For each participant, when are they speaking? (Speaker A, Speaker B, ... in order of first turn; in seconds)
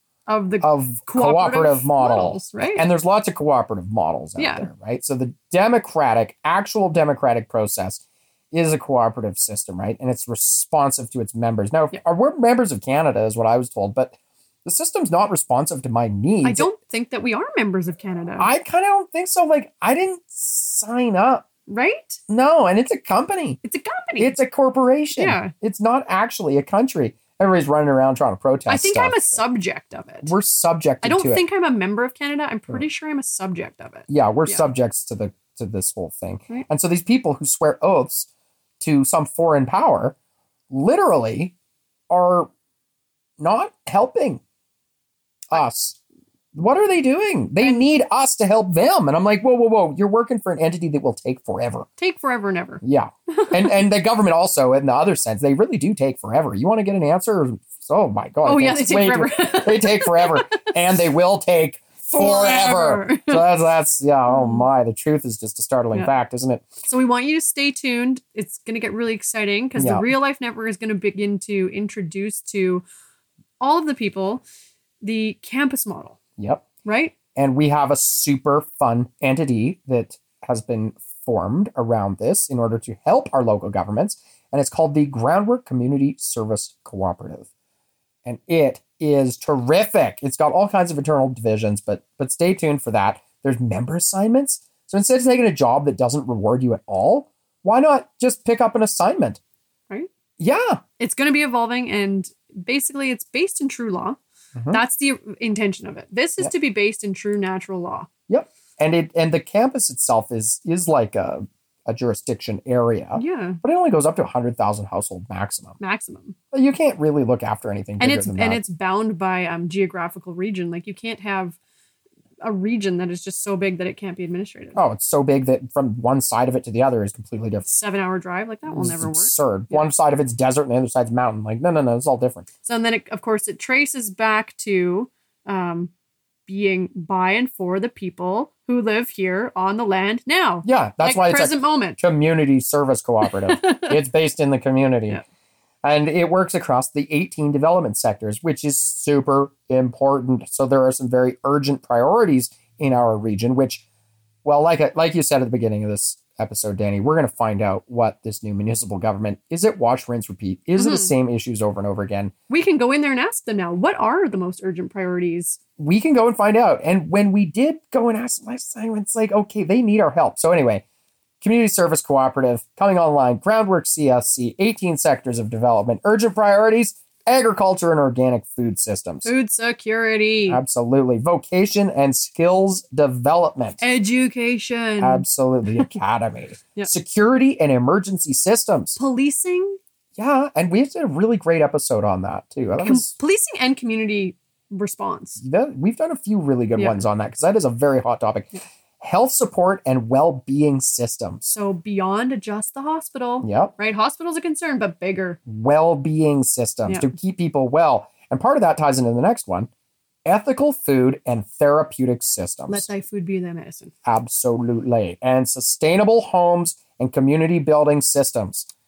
Speaker A: 0.3-2.9, 4.4-4.7, 16.4-18.5, 21.7-22.2, 23.6-24.4, 25.1-25.5, 28.7-30.3, 31.0-34.6, 47.6-47.9, 52.0-53.8, 58.5-60.7, 62.1-63.5, 64.3-64.7, 66.8-72.8, 73.6-74.4, 75.0-76.2, 76.8-77.2, 101.0-104.2, 104.7-108.1, 113.2-113.6, 115.8-116.4, 118.0-121.6, 122.4-124.8, 127.7-129.9, 132.7-135.9, 136.5-142.0, 143.3-143.9, 160.8-161.1, 162.5-165.6, 179.2-180.6, 183.8-185.9, 189.0-189.8, 192.8-195.4, 196.8-197.0, 201.5-205.4, 206.9-207.1, 212.7-213.9
Speaker B: 0.6-16.7, 18.4-21.5, 22.3-23.6, 24.2-29.4, 30.2-31.4, 34.1-38.3, 38.8-40.2, 40.7-41.5, 42.1-42.5, 43.4-44.4, 45.5-46.0, 46.5-51.9, 52.8-66.7, 69.8-70.1, 76.4-76.7, 77.3-87.5, 88.2-99.4, 100.4-100.8, 104.6-104.8, 108.3-115.8, 116.5-118.6, 124.8-127.7, 128.7-132.5, 140.7-145.2, 145.8-153.8, 154.4-162.3, 165.8-170.8, 171.4-179.3, 180.5-183.8, 185.0-189.0, 190.2-193.1, 195.4-201.5, 203.4-203.7, 205.5-209.7, 210.2-212.9, 214.1-218.7